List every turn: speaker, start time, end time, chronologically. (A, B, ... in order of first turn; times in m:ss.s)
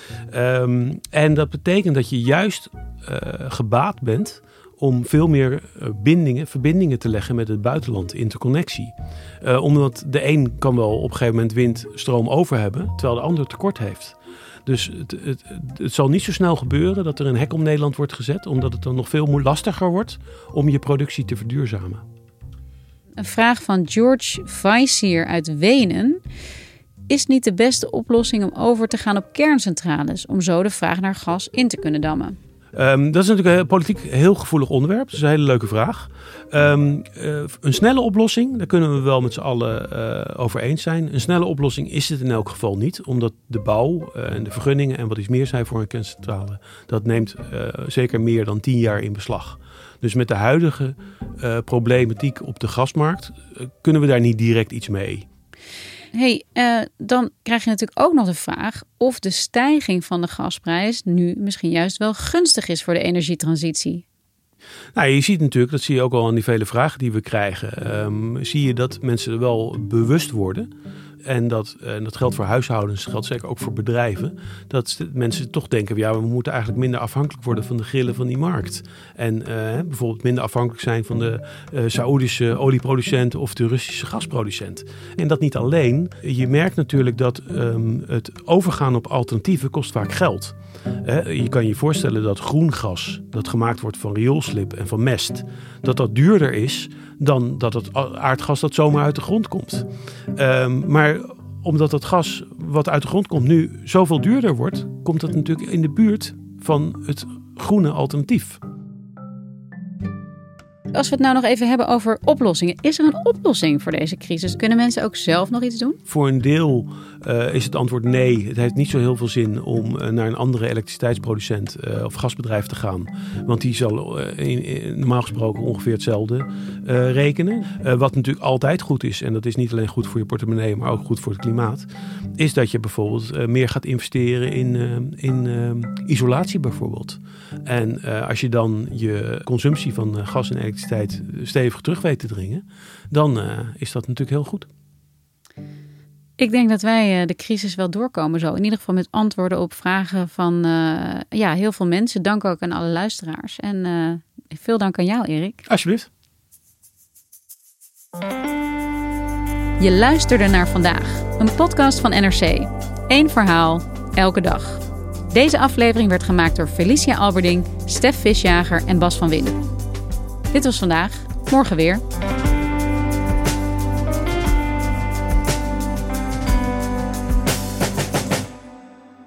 0:00.3-0:22.0 A
0:23.2-0:26.2 B
0:27.1-0:32.4 B
0:32.7-0:55.2 A
0:56.1-1:04.0 B
1:04.9-1:10.7 A
1:11.2-1:48.6 A
1:50.9-1:56.0 B
1:56.1-2:24.7 A
2:26.4-2:35.6 B
2:35.7-2:36.1 A
2:39.8-2:49.6 B
2:50.5-2:52.0 B